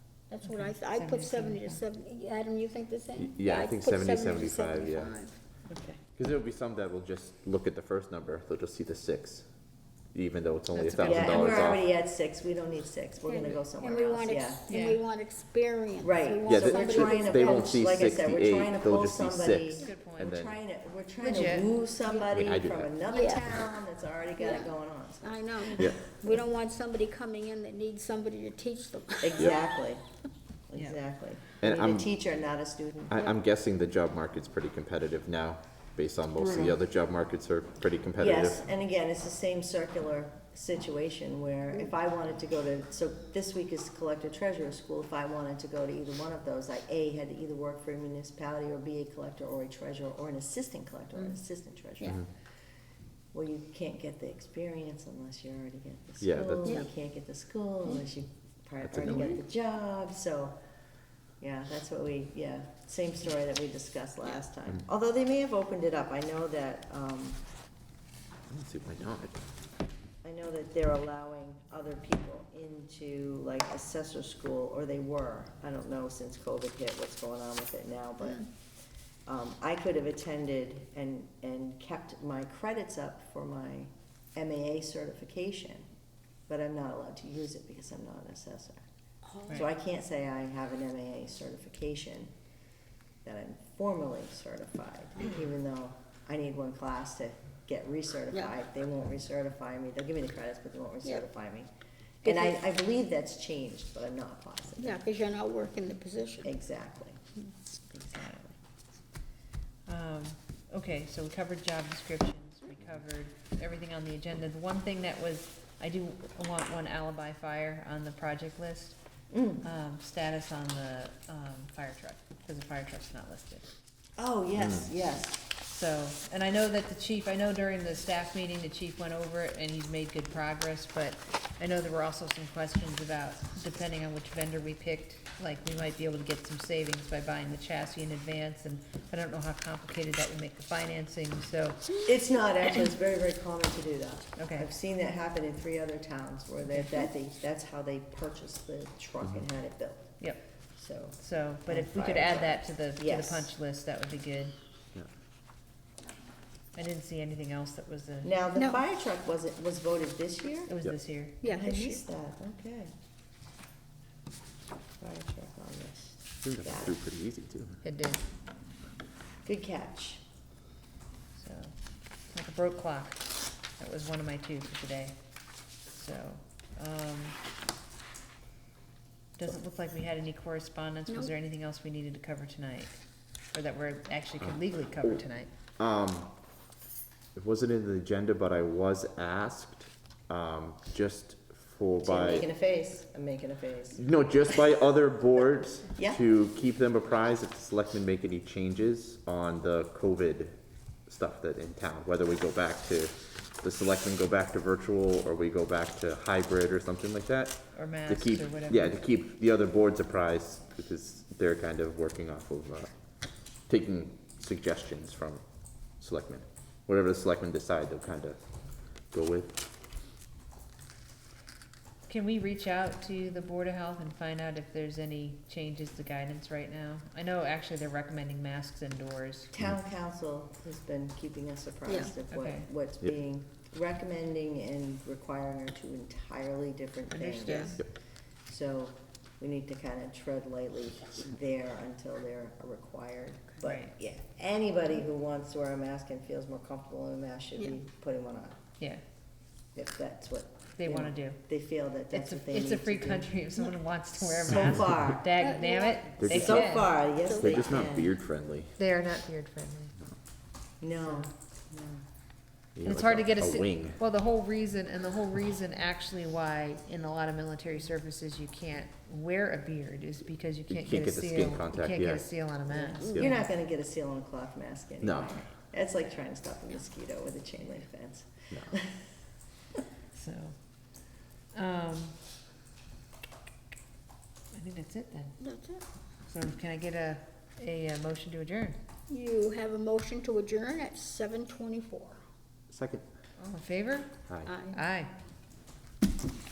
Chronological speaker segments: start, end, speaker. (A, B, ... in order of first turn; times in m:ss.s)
0:00.3-0:05.4 A
0:00.4-0:01.8 B
0:03.1-0:05.1 C
0:05.7-0:06.0 D
0:06.2-0:09.4 C
0:10.1-0:11.8 C
0:10.7-0:11.7 B
0:11.0-0:14.6 D
0:13.2-0:17.9 A
0:14.7-0:15.0 B
0:16.0-0:26.4 D
0:16.5-0:20.5 C
0:19.8-0:20.4 B
0:21.2-0:21.7 B
0:22.0-0:23.5 A
0:22.3-0:23.0 C
0:24.4-0:24.7 A
0:25.2-0:29.6 A
0:29.2-0:30.0 D
0:30.7-0:33.3 D
0:31.6-0:32.1 C
0:33.1-0:38.6 C
0:36.4-0:36.8 B
0:38.2-0:52.2 D
0:53.3-1:00.5 D
0:56.2-0:56.8 C
0:58.8-0:59.4 C
1:01.4-1:07.4 D
1:08.5-1:09.4 C
1:10.2-1:18.5 D
1:19.2-1:25.8 D
1:26.5-1:28.8 D
1:29.2-1:29.6 A
1:29.5-1:32.3 D
1:33.2-1:41.7 D
1:42.2-1:45.0 D
1:42.2-1:42.6 A
1:44.8-1:46.5 A
1:46.4-1:47.2 D
1:47.9-1:48.5 B
1:49.8-1:59.0 B
1:59.3-1:59.6 D
1:59.6-2:03.7 B
2:04.2-2:05.4 D
2:04.6-2:04.8 C
2:05.7-2:22.0 B
2:22.0-2:30.2 D
2:24.4-2:24.7 B
2:26.7-2:27.1 B
2:30.7-2:33.5 D
2:31.2-2:34.5 B
2:36.7-2:38.3 B
2:38.2-2:40.7 D
2:40.7-2:41.4 B
2:41.4-2:42.0 A
2:41.4-2:42.9 D
2:45.0-2:47.0 D
2:46.4-2:47.8 C
2:47.8-2:48.2 B
2:49.4-2:50.2 D
2:51.4-2:51.7 B
2:52.3-2:55.2 B
2:55.9-2:57.4 B
2:59.4-3:05.5 B
3:05.8-3:06.3 C
3:07.3-3:12.5 C
3:12.0-3:14.0 D
3:14.0-3:20.6 C
3:15.9-3:16.2 D
3:21.1-3:32.9 C
3:27.7-3:29.0 B
3:33.7-3:35.4 C
3:36.0-3:38.4 C
3:39.1-3:39.6 C
3:42.1-3:49.5 B
3:49.5-3:57.8 D
3:51.9-3:52.1 A
3:52.3-3:52.7 B
3:57.1-3:57.8 B
3:57.4-3:57.7 A
3:58.5-4:08.6 D
4:03.6-4:03.9 B
4:09.7-4:13.3 D
4:10.8-4:11.4 B
4:12.1-4:16.9 B
4:14.5-4:15.3 D
4:15.4-4:16.2 A
4:16.2-4:18.8 C
4:16.2-4:18.2 D
4:17.2-4:17.9 A
4:18.8-4:20.0 B
4:20.8-4:22.0 D
4:21.0-4:21.3 B
4:22.8-4:24.0 C
4:22.8-4:33.4 B
4:30.7-4:32.3 C
4:32.7-4:39.0 D
4:33.0-4:33.2 A
4:35.0-4:35.4 C
4:40.1-4:40.5 B
4:41.5-4:42.2 B
4:44.5-4:45.4 B
4:45.4-4:45.8 A
4:46.3-4:48.8 B
4:49.1-4:52.2 A
4:52.7-4:53.0 C
4:53.4-4:54.2 B
4:54.3-4:54.5 C
4:54.4-4:54.8 A
4:54.7-4:55.1 B